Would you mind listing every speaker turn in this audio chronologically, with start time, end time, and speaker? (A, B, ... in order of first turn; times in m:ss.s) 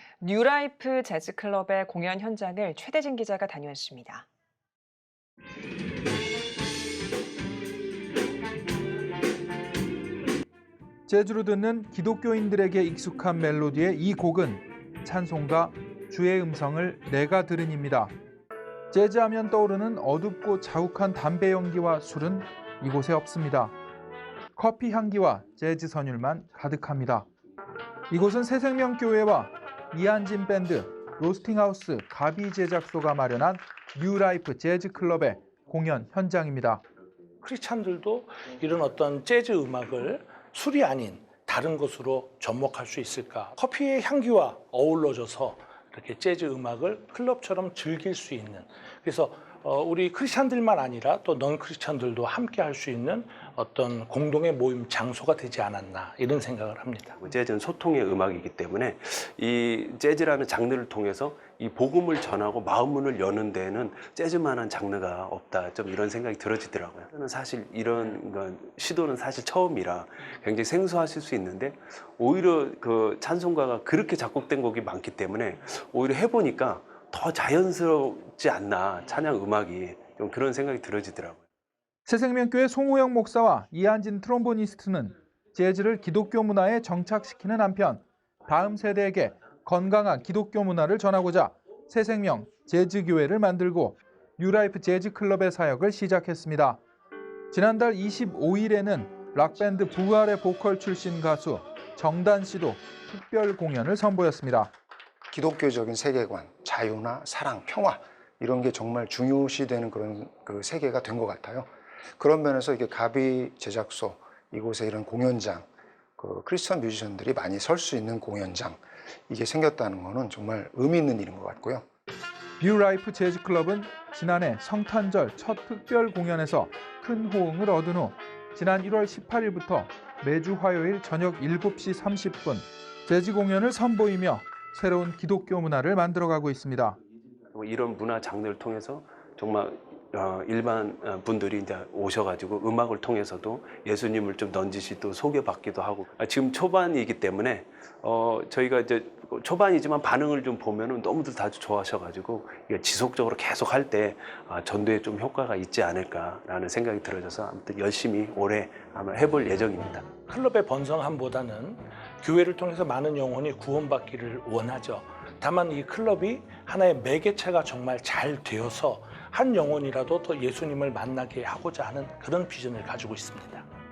0:00.2-0:04.2 A
0:11.1-0:18.1 B
0:18.9-0:23.7 B
0:24.6-0:27.3 B
0:28.1-0:36.8 B
0:37.4-0:57.2 C
0:57.2-1:21.4 D
1:22.1-1:36.8 B
1:37.5-1:44.7 B
1:45.3-1:55.6 E
1:56.2-2:01.8 E
2:02.6-2:17.0 B
2:17.5-2:40.1 D
2:40.2-2:53.7 C